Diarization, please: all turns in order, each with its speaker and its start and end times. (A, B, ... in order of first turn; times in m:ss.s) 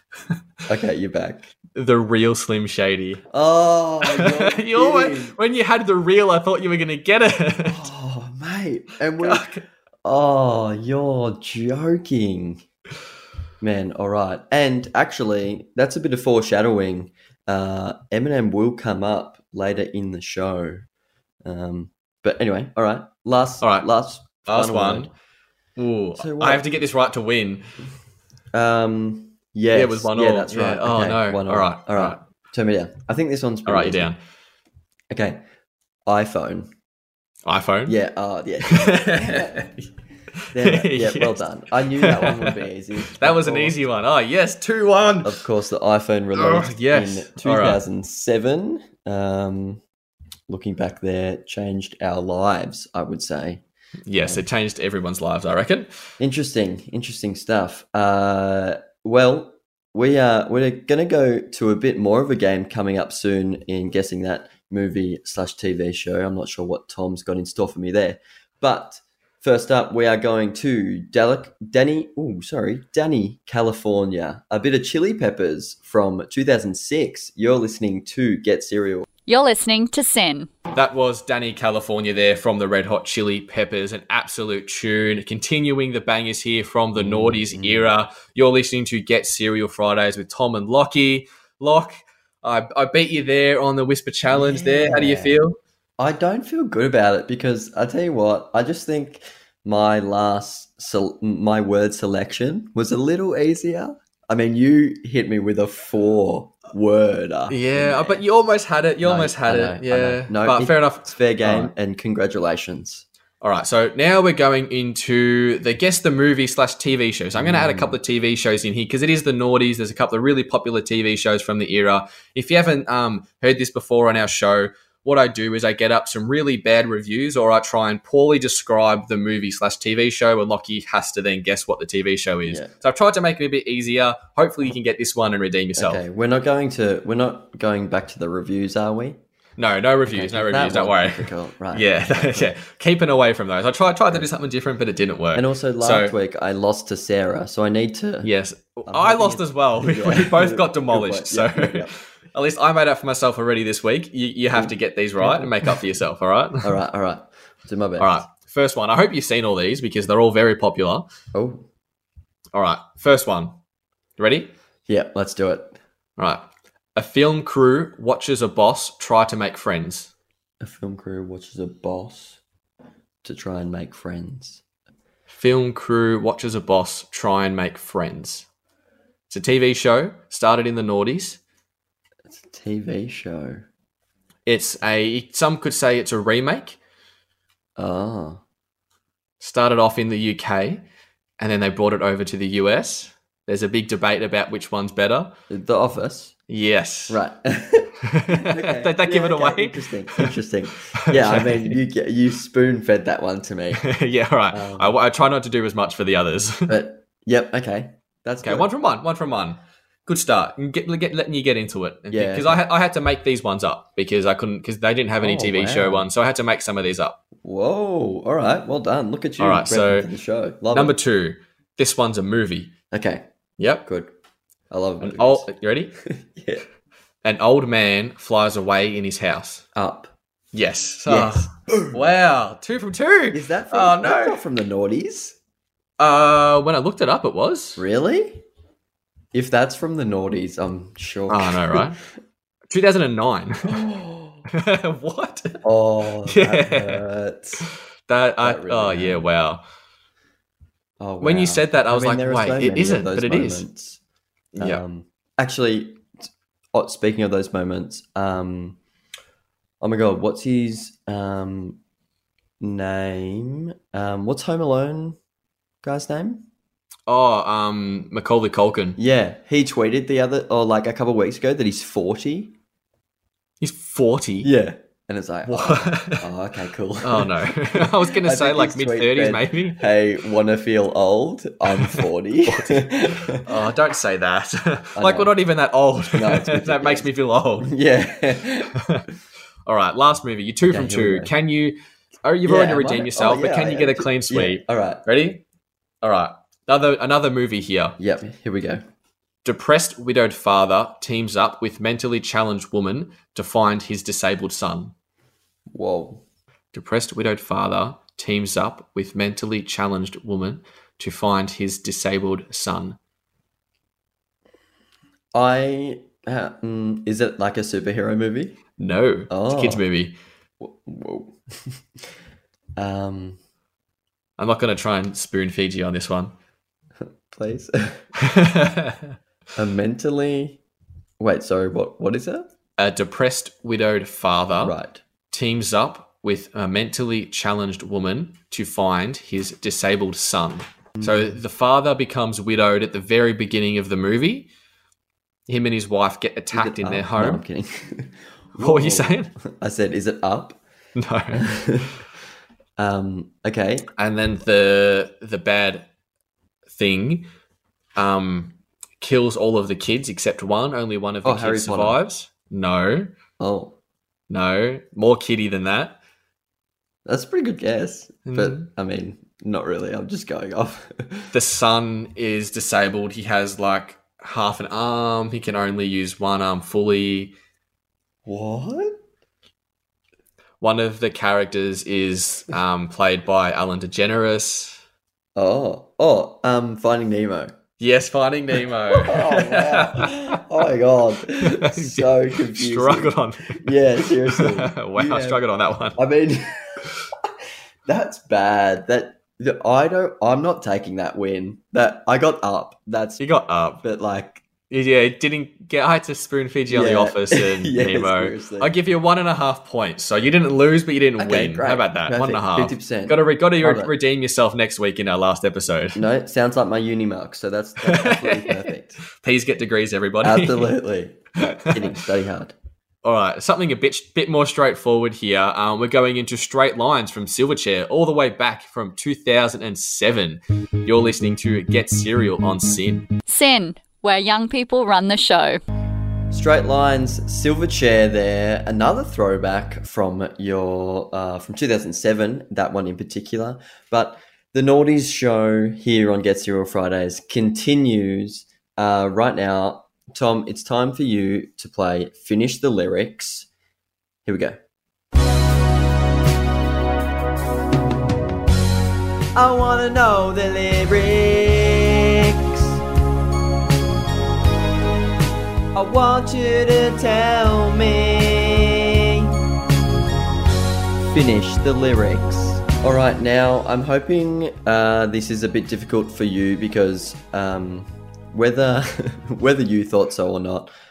0:00.7-0:01.5 A
0:01.7-0:03.2 B
0:03.3-0:05.4 A
0:04.0-0:07.9 B
0:07.6-0:12.6 A
0:09.2-0:09.6 B
0:13.6-0:20.8 A
0:21.4-0:25.1 A
0:23.6-0:23.9 B
0:24.4-0:25.1 B
0:25.8-0:27.7 B
0:26.2-0:26.6 A
0:28.5-0:34.1 A
0:29.7-0:32.2 B
0:33.7-0:34.2 B
0:35.1-0:35.4 A
0:36.1-0:36.7 A
0:37.5-0:38.0 B
0:37.9-0:39.7 A
0:38.6-0:39.9 B
0:40.4-0:45.4 B
0:40.5-0:43.8 A
0:45.2-0:49.8 A
0:46.4-0:47.8 B
0:50.5-0:53.6 A
0:54.1-0:55.9 B
0:56.2-1:19.1 A
1:19.3-1:20.5 C
1:20.7-1:35.6 B
1:27.0-1:27.9 A
1:34.3-1:35.4 A
1:36.0-1:48.2 A
1:47.5-1:51.7 B
1:49.0-1:53.1 A
1:53.4-2:16.0 B
1:57.4-1:58.0 A
2:12.5-2:12.7 A
2:15.8-2:19.2 A
2:19.6-2:26.1 B
2:20.1-2:22.6 A
2:25.3-2:28.3 A
2:28.2-2:36.7 B
2:28.9-2:31.9 A
2:34.5-2:35.8 A
2:36.6-2:38.2 A
2:38.0-2:41.1 B
2:41.3-2:41.6 A
2:42.5-2:43.6 B
2:44.2-2:44.5 B
2:44.9-2:45.8 A
2:46.2-2:50.1 B
2:50.6-2:52.4 A
2:53.2-2:54.6 A
2:55.3-2:58.5 B
2:59.3-3:01.4 B
3:02.3-3:03.6 A
3:04.5-3:06.8 B
3:07.8-3:08.4 A
3:09.4-3:10.8 B
3:11.4-3:15.4 B
3:15.5-3:16.4 A
3:16.5-3:17.2 B
3:17.1-3:23.8 A
3:18.0-3:20.3 B
3:21.0-3:21.8 B
3:23.8-3:26.8 B
3:24.5-3:25.0 A
3:26.7-3:28.7 A
3:28.4-3:37.2 B
3:32.1-3:32.6 A
3:35.2-3:36.1 A
3:37.4-3:41.0 A
3:39.4-3:40.1 B
3:40.7-3:42.8 B
3:42.9-3:43.2 A
3:43.6-3:43.9 B
3:43.8-3:44.1 A
3:44.7-3:45.5 A
3:45.0-3:46.0 B
3:46.1-3:46.6 A
3:47.2-3:49.7 B
3:49.8-3:50.1 A
3:50.5-3:54.4 B
3:51.1-3:52.1 A
3:53.3-3:55.4 A
3:56.0-3:57.8 B
3:57.8-3:58.4 A
3:59.3-4:02.0 A
4:01.3-4:02.0 B
4:02.7-4:03.8 B
4:03.7-4:04.4 A
4:04.5-4:05.6 B
4:05.6-4:07.6 A
4:06.3-4:07.0 B
4:07.6-4:09.6 B
4:08.4-4:09.3 A
4:11.0-4:14.0 A
4:11.2-4:13.7 B
4:14.5-4:14.8 B
4:14.6-4:16.1 A
4:16.7-4:18.8 A
4:19.8-4:21.8 A
4:22.6-4:25.2 A
4:25.8-4:26.5 A
4:27.1-4:29.0 B
4:29.0-4:32.6 A
4:33.6-4:34.5 B
4:34.4-4:43.4 A
4:35.5-4:36.3 B
4:37.0-4:39.9 B
4:41.7-4:47.7 B
4:45.0-4:45.4 A
4:46.1-4:47.1 A
4:47.6-4:48.8 A
4:48.8-4:49.0 B
4:49.7-4:55.4 B
4:50.7-4:51.3 A
4:52.4-4:55.0 A
4:56.0-4:58.0 B
4:58.0-4:58.8 A
4:59.4-5:04.9 B
5:05.7-5:06.2 A
5:06.7-5:13.0 B
5:15.3-5:18.6 A
5:18.8-5:20.2 B
5:19.3-5:19.8 A
5:20.6-5:21.8 A
5:22.8-5:23.4 A
5:24.4-5:26.3 B
5:27.0-5:28.0 A
5:28.2-5:29.1 B
5:29.6-5:30.6 A
5:31.2-5:32.5 A
5:32.8-5:34.8 B
5:34.6-5:35.0 A
5:35.3-5:44.5 B
5:41.0-5:41.3 A
5:45.5-5:47.4 B
5:46.5-5:50.6 A
5:48.6-5:49.3 B
5:51.0-5:51.4 B
5:51.4-5:52.0 A
5:52.8-5:53.9 A
5:54.0-5:55.9 B
5:56.7-5:57.3 B
5:58.0-6:03.1 B
6:01.2-6:02.0 A
6:03.4-6:03.8 A
6:04.3-6:06.0 B
6:07.1-6:11.3 A
6:08.3-6:08.7 B
6:11.3-6:17.4 B
6:18.3-6:19.0 A
6:20.6-6:24.8 B
6:25.4-6:27.5 A
6:27.8-6:30.4 B
6:28.9-6:35.4 A
6:31.4-6:36.0 B
6:36.0-6:37.3 A
6:37.9-6:43.2 A
6:43.2-6:43.8 B
6:43.8-6:44.4 A
6:44.7-6:56.0 B
6:46.7-6:48.7 A
6:51.2-6:53.9 A
6:56.0-6:59.0 A
6:57.8-7:00.8 B
7:00.2-7:02.6 A
7:01.4-7:01.9 B
7:03.0-7:13.1 B
7:13.3-7:15.6 C
7:16.3-7:33.5 A
7:34.2-7:34.6 A
7:39.4-7:42.8 A
7:45.7-7:49.4 A
7:51.1-8:00.7 A